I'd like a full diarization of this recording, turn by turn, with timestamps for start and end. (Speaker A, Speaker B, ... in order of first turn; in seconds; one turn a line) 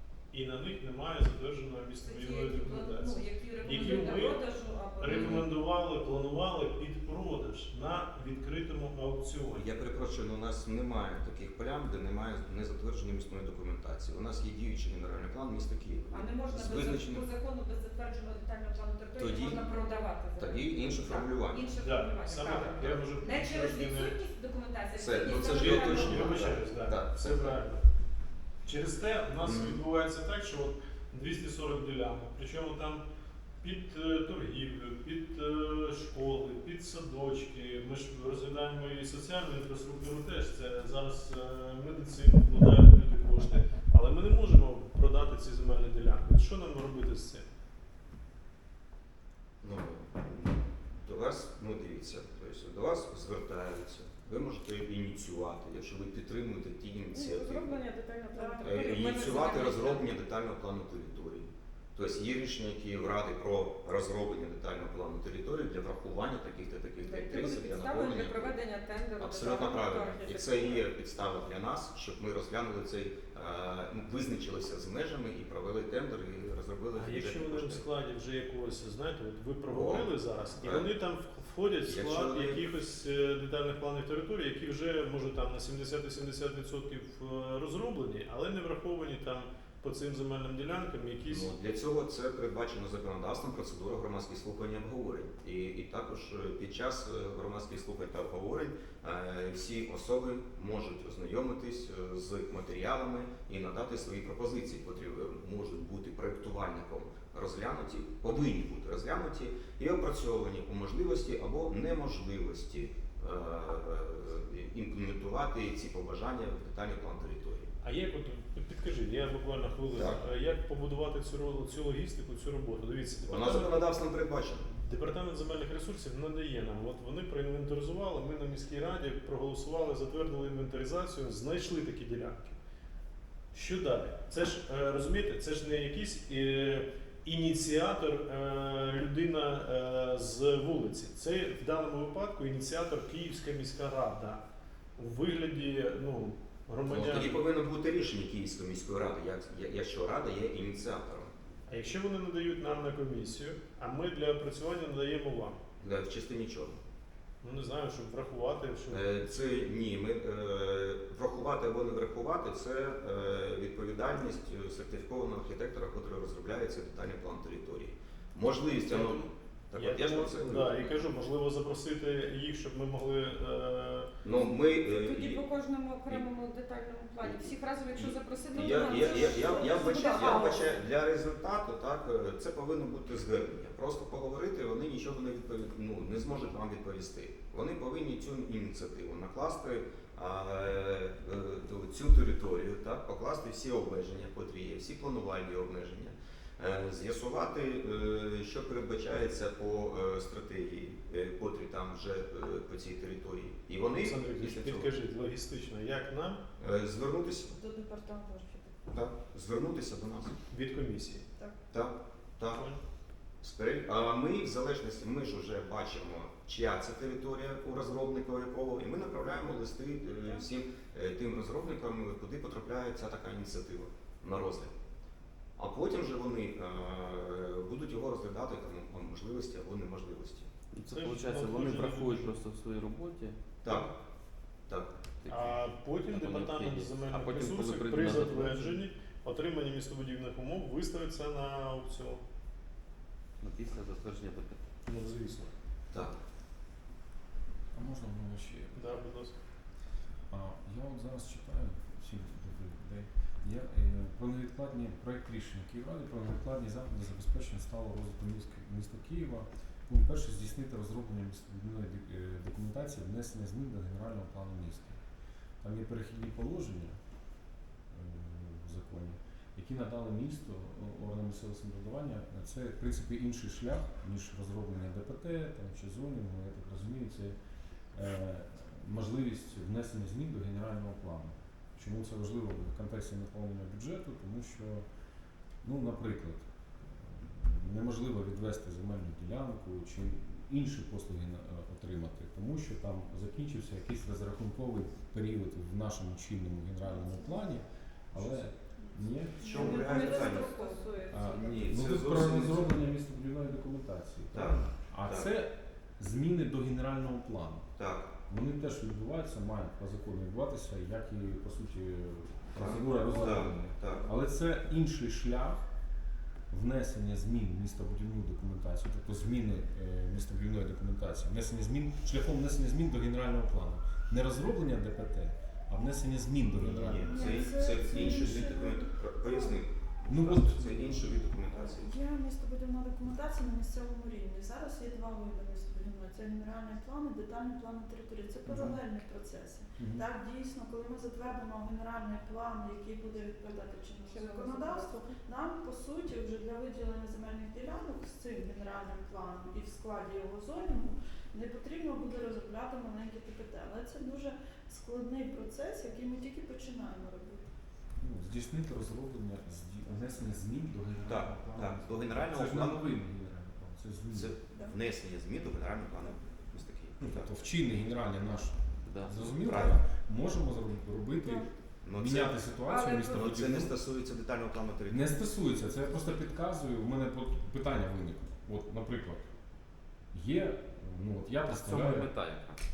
Speaker A: 0.3-4.5
Speaker B: 2.0-5.4
Speaker A: 5.0-9.7
Speaker C: 5.0-5.4
Speaker C: 9.5-17.2
Speaker B: 16.1-26.5
Speaker C: 19.1-19.7
Speaker C: 20.4-21.6
Speaker A: 21.8-24.1
Speaker C: 22.6-22.9
Speaker C: 24.9-27.6
Speaker A: 25.4-27.8
Speaker A: 28.6-33.0
Speaker C: 29.4-29.8
Speaker A: 33.6-47.4
Speaker C: 49.6-57.8
Speaker B: 57.1-60.0
Speaker D: 58.3-58.8
Speaker C: 58.6-68.5
Speaker B: 67.0-70.8
Speaker C: 69.2-77.8
Speaker A: 76.9-91.5
Speaker C: 79.7-80.1
Speaker C: 80.6-80.9
Speaker C: 81.9-82.6
Speaker C: 91.3-117.7
Speaker A: 117.8-124.0
Speaker C: 119.9-120.2
Speaker C: 123.3-124.7
Speaker A: 124.7-132.6
Speaker A: 133.5-144.4
Speaker A: 144.9-147.4
Speaker C: 146.9-151.3
Speaker A: 151.7-155.6
Speaker C: 155.8-156.8
Speaker A: 157.4-159.1
Speaker C: 158.9-170.8
Speaker A: 168.8-174.1
Speaker C: 174.2-175.4
Speaker B: 174.9-180.8
Speaker C: 177.2-204.9
Speaker D: 178.9-180.5
Speaker A: 204.0-206.4
Speaker C: 206.6-207.6
Speaker D: 207.5-208.8
Speaker C: 208.9-210.4
Speaker A: 210.5-211.2
Speaker C: 211.7-212.6
Speaker A: 212.5-212.8
Speaker C: 213.4-224.7
Speaker C: 225.6-230.5
Speaker E: 230.7-233.7
Speaker A: 230.9-232.3
Speaker C: 233.6-233.9
Speaker E: 235.2-238.8
Speaker A: 235.3-242.2
Speaker E: 243.4-244.7
Speaker A: 244.8-245.5
Speaker C: 245.9-246.2
Speaker F: 247.7-249.0
Speaker A: 248.7-249.4
Speaker F: 250.3-265.0
Speaker F: 265.6-267.0
Speaker F: 267.9-277.4
Speaker F: 277.9-284.9
Speaker F: 285.6-299.9
Speaker D: 296.8-297.6
Speaker D: 298.8-300.9
Speaker C: 299.4-300.6
Speaker B: 299.5-301.5
Speaker C: 301.1-302.8
Speaker F: 301.1-307.7
Speaker C: 304.3-305.3
Speaker C: 307.8-308.1
Speaker F: 308.3-315.6
Speaker C: 312.5-314.0
Speaker F: 316.5-328.5
Speaker C: 326.5-331.9
Speaker D: 327.1-329.6
Speaker F: 330.1-331.1
Speaker D: 331.5-357.5
Speaker F: 338.5-338.8
Speaker F: 339.8-340.1
Speaker B: 344.1-345.0
Speaker F: 358.0-364.4
Speaker C: 361.1-362.8
Speaker C: 364.1-367.4
Speaker F: 367.0-373.8
Speaker E: 368.8-369.3
Speaker C: 369.4-369.8
Speaker C: 371.8-372.5
Speaker B: 372.7-373.2
Speaker C: 373.1-375.2
Speaker F: 374.9-379.3
Speaker F: 380.1-382.1
Speaker E: 381.5-382.6